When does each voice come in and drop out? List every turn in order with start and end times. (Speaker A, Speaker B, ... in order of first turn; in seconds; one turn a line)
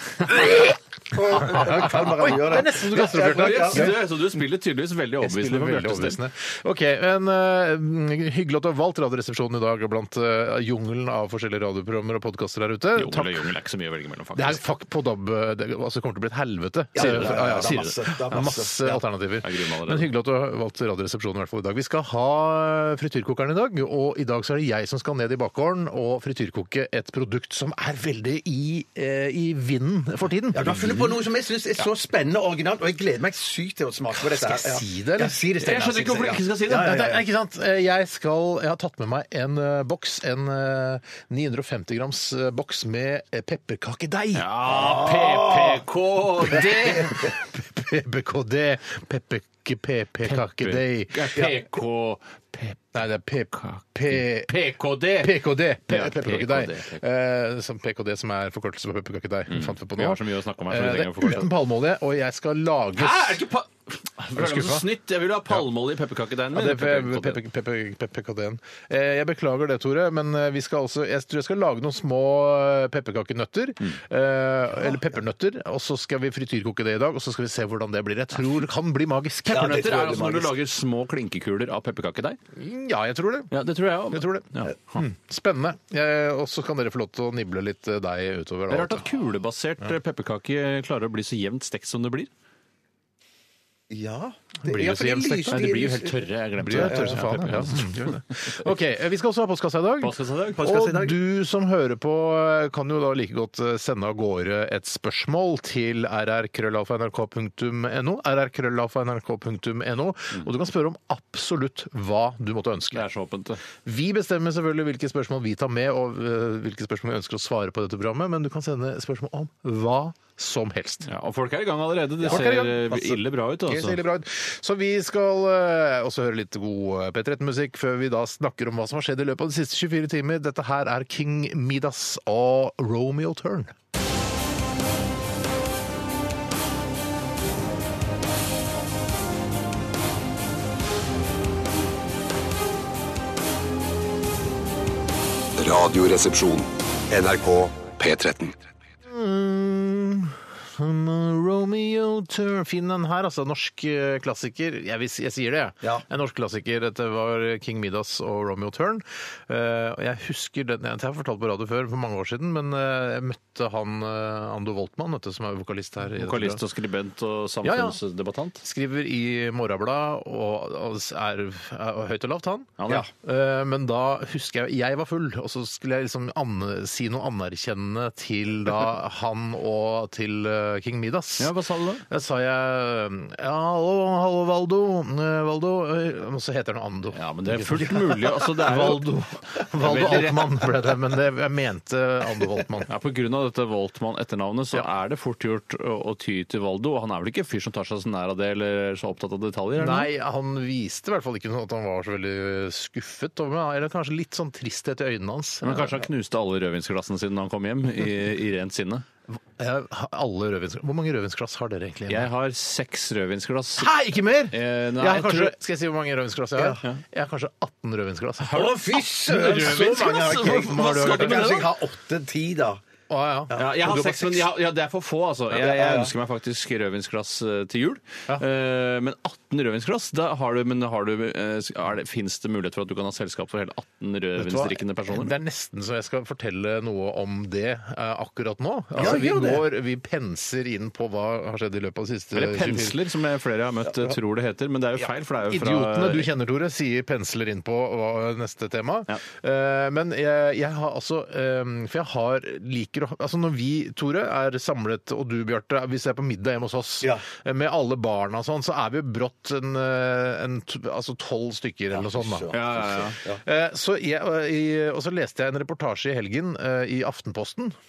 Speaker A: 0.2-4.2
Speaker B: 1.1-4.0
Speaker C: 3.1-6.2
Speaker A: 5.2-13.4
Speaker C: 13.0-14.6
Speaker A: 14.3-31.2
Speaker B: 16.9-19.0
Speaker C: 17.0-18.5
Speaker C: 19.4-20.1
Speaker B: 30.5-37.2
Speaker A: 34.1-35.4
Speaker C: 35.6-37.0
Speaker A: 36.7-44.5
Speaker C: 44.3-47.3
Speaker B: 44.7-45.8
Speaker A: 46.5-51.5
Speaker B: 47.0-47.3
Speaker C: 50.2-52.9
Speaker A: 52.9-63.4
Speaker C: 53.5-57.0
Speaker C: 59.5-61.5
Speaker C: 63.0-67.4
Speaker A: 64.4-64.9
Speaker A: 66.5-80.0
Speaker B: 79.5-80.5
Speaker C: 79.5-82.4
Speaker A: 82.5-89.1
Speaker C: 83.5-85.0
Speaker C: 88.7-92.3
Speaker B: 93.9-96.2
Speaker A: 94.6-95.9
Speaker C: 95.5-98.6
Speaker A: 96.6-113.1
Speaker B: 96.8-97.2
Speaker C: 100.0-100.7
Speaker B: 100.5-101.2
Speaker C: 112.9-113.6
Speaker A: 113.8-121.1
Speaker C: 121.1-124.0
Speaker A: 122.2-133.7
Speaker D: 145.6-148.6
Speaker A: 149.1-166.6
Speaker C: 166.2-168.6
Speaker A: 167.6-168.0
Speaker A: 168.6-181.5
Speaker C: 172.8-173.1
Speaker C: 181.4-182.1
Speaker A: 182.1-192.9
Speaker C: 187.1-190.7
Speaker C: 192.9-200.1
Speaker A: 199.8-206.0
Speaker C: 205.6-209.1
Speaker A: 209.3-212.3
Speaker C: 212.1-213.9
Speaker A: 213.8-221.7
Speaker C: 214.5-215.6
Speaker B: 216.6-216.8
Speaker B: 218.5-222.8
Speaker C: 219.3-221.7
Speaker A: 223.1-224.2
Speaker B: 223.5-224.4
Speaker C: 223.5-235.3
Speaker B: 225.6-226.1
Speaker A: 234.4-243.0
Speaker B: 239.0-239.6
Speaker C: 242.3-246.3
Speaker A: 245.4-267.8
Speaker B: 261.9-263.4
Speaker C: 262.5-263.2